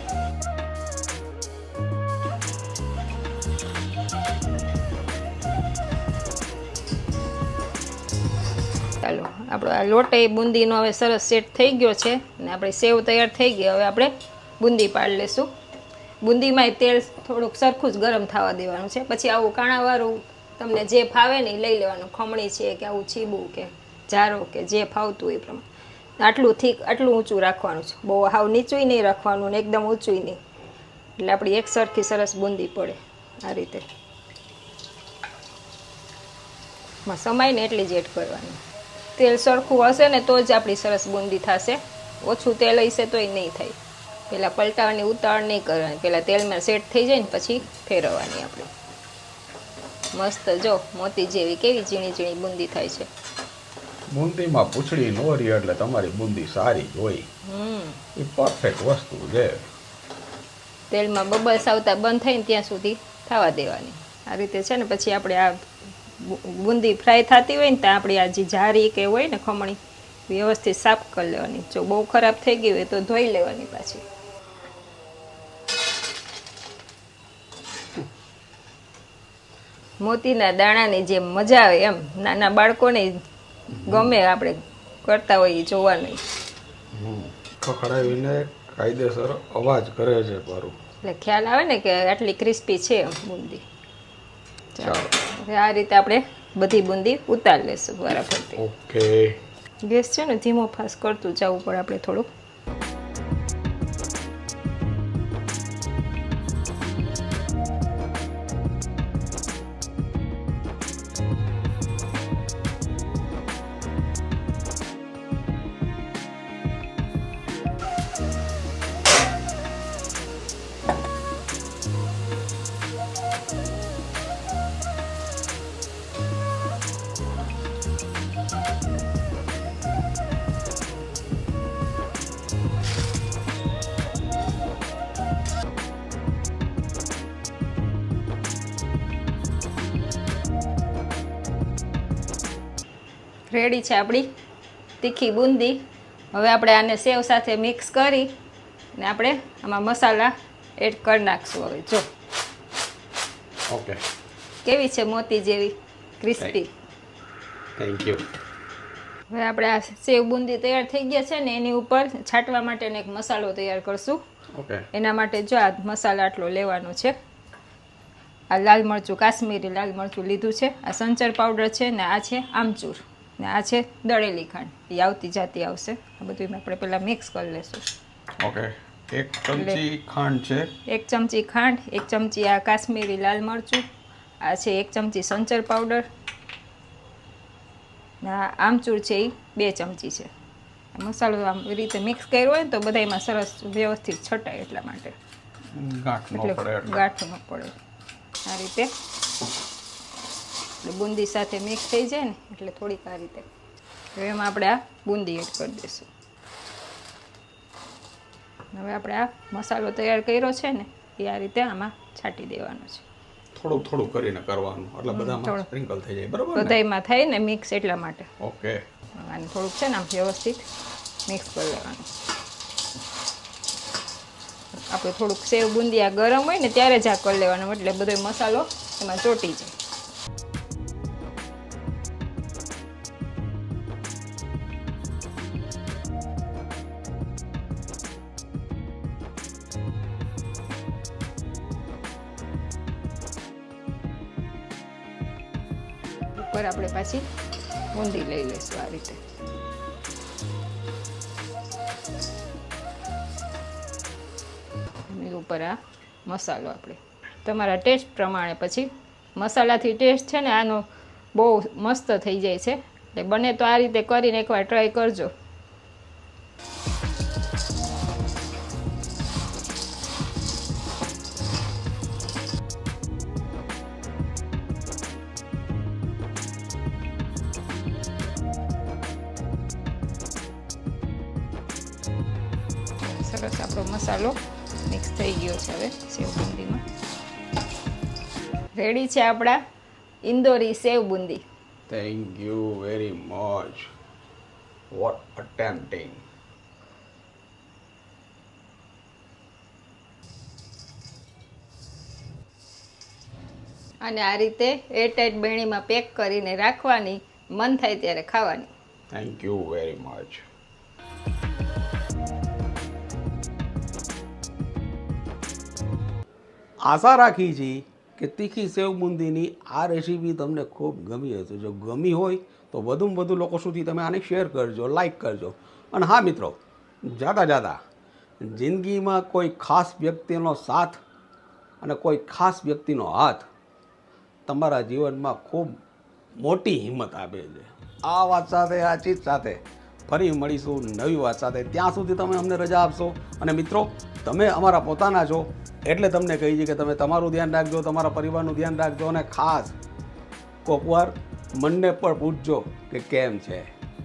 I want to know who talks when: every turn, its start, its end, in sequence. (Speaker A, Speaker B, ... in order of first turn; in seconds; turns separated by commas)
Speaker A: 9.0-15.5, Speaker A: 16.2-25.6, Speaker A: 26.2-30.4, Speaker A: 31.2-33.9, Speaker A: 37.0-38.6, Speaker A: 39.1-43.8, Speaker A: 44.3-48.7, Speaker A: 50.1-53.1, Speaker B: 54.1-57.3, Speaker A: 57.5-58.1, Speaker B: 58.1-59.6, Speaker A: 60.9-74.0, Speaker A: 80.0-83.2, Speaker A: 83.7-86.2, Speaker B: 86.9-90.7, Speaker A: 91.0-93.6, Speaker A: 94.7-98.6, Speaker B: 94.8-95.1, Speaker B: 98.6-99.4, Speaker A: 99.8-102.3, Speaker A: 143.5-144.3, Speaker A: 145.0-145.8, Speaker A: 146.3-148.3, Speaker A: 149.0-152.1, Speaker B: 153.7-154.0, Speaker A: 154.6-156.7, Speaker B: 157.8-158.2, Speaker A: 159.3-164.2, Speaker B: 164.5-164.8, Speaker A: 164.9-167.1, Speaker A: 168.5-177.9, Speaker B: 178.4-180.7, Speaker A: 179.5-179.8, Speaker A: 180.9-183.8, Speaker A: 184.4-186.1, Speaker A: 188.2-190.3, Speaker A: 190.9-195.2, Speaker B: 195.7-197.0, Speaker A: 196.3-197.8, Speaker A: 198.4-198.9, Speaker A: 200.8-203.5, Speaker A: 204.2-206.1, Speaker A: 208.7-213.1, Speaker B: 213.5-216.8, Speaker A: 215.1-215.7, Speaker A: 216.5-218.3, Speaker B: 218.4-218.8, Speaker A: 219.2-220.7, Speaker A: 221.3-222.1, Speaker A: 224.8-229.8, Speaker A: 246.3-247.2, Speaker A: 247.9-249.2, Speaker A: 255.1-265.3, Speaker A: 283.0-284.4, Speaker A: 284.9-286.8, Speaker A: 288.8-289.6, Speaker A: 290.2-291.4, Speaker B: 291.9-293.9, Speaker B: 294.9-296.2, Speaker A: 304.0-308.7, Speaker B: 309.1-310.4, Speaker B: 316.8-327.8, Speaker B: 328.4-331.0, Speaker B: 331.8-333.5, Speaker B: 334.5-335.7, Speaker B: 336.4-349.7, Speaker B: 350.6-353.7